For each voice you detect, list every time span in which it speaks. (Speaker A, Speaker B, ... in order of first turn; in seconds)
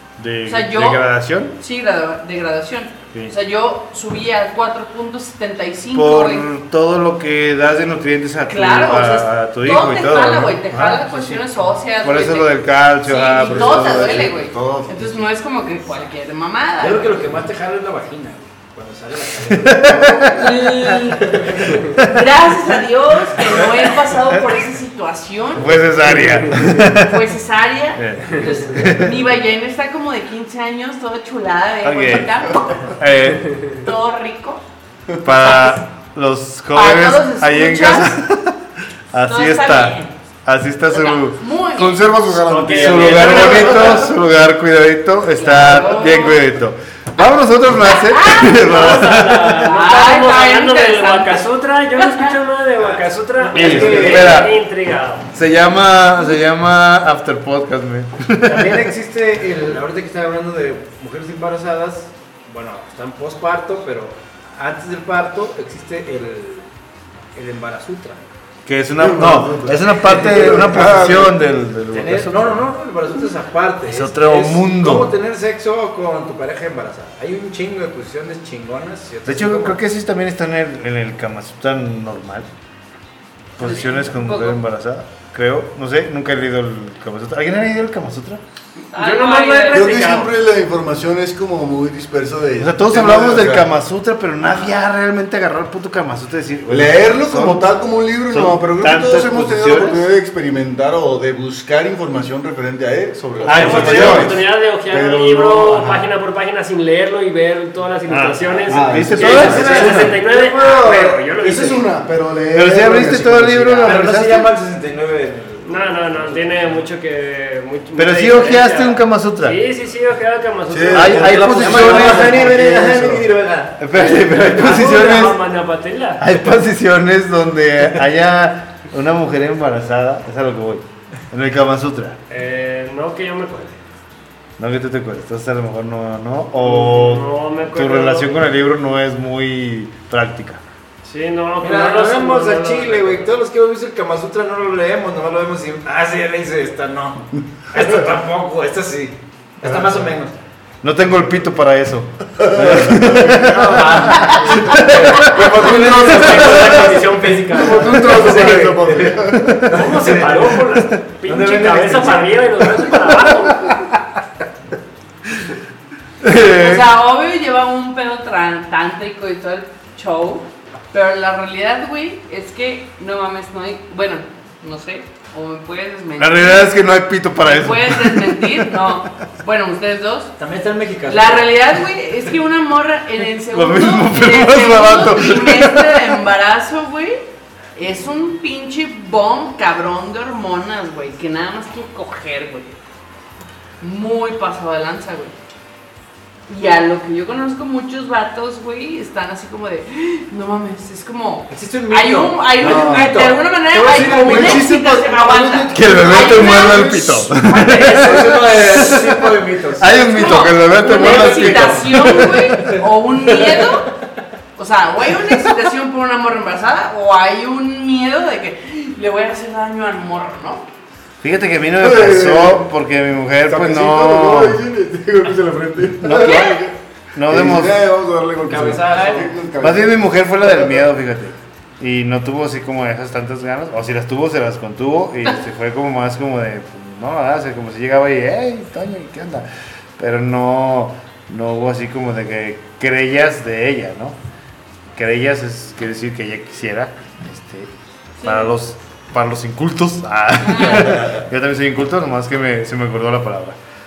Speaker A: 0.2-1.6, 5.9-11.4, 12.0-14.3, 19.5-21.4, 21.9-22.2, 25.6-27.3, 27.9-29.2, 31.8-32.3, 32.9-33.7, 35.2-38.6, 39.1-41.8, 42.7-49.7, 53.5-54.5, 55.3-58.9, 68.7-72.7, 73.8-75.1, 79.2-82.5, 83.6-88.4, 92.6-97.6, 98.3-100.0, 103.4-104.3, 108.1-110.0, 112.5-114.5, 118.0-119.6, 120.9-122.4, 123.8-125.4, 126.2-132.2, 134.6-140.6, 150.8-156.6, 157.7-159.8, 166.2-166.8, 176.2-179.0, 183.4-186.2, 204.1-209.2, 209.8-212.8, 221.2-224.6, 226.0-226.6, 227.1-227.8, 229.6-244.2, 244.9-247.7, 248.2-253.6
Speaker B: 0.5-1.0, 1.6-6.5, 8.5-17.2, 20.1-25.9, 26.9-33.0, 33.7-34.6, 35.4-35.8, 36.7-38.2, 39.3-40.1, 40.9-42.3, 43.1-44.1, 45.3-46.4, 47.8-51.5, 52.0-52.3, 83.6-84.6, 88.9-90.0, 166.4-176.7, 177.4-180.3, 181.1-187.2, 187.8-192.8, 193.8-195.3, 196.5-208.2, 209.9-213.9, 214.6-220.7, 226.2-226.5, 248.2-248.5, 250.4-250.9
Speaker C: 13.3-15.2, 41.8-44.0, 69.0-71.4, 89.7-93.7, 96.7-106.0, 108.6-114.0, 120.7-123.3, 149.7-149.9, 152.6-153.5, 157.5-159.4, 202.6-203.1, 203.9-204.8, 205.4-207.3, 221.8-222.6, 223.5-226.7, 227.3-230.7, 250.8-251.2
Speaker D: 16.8-20.1, 53.0-54.5, 58.4-66.7, 67.3-68.2, 70.1-70.6, 71.9-79.8, 109.2-110.1, 113.8-116.8, 121.1-124.0, 141.6-150.3, 153.1-163.0, 180.4-181.6, 201.5-204.8, 207.5-210.0, 210.9-212.2, 228.5-229.3
Speaker E: 42.5-44.1, 48.5-55.2, 88.9-90.3, 103.4-111.8, 115.6-121.5, 124.0-126.2, 132.3-133.8, 136.6-138.5, 141.0-143.3, 155.6-158.8, 159.7-163.7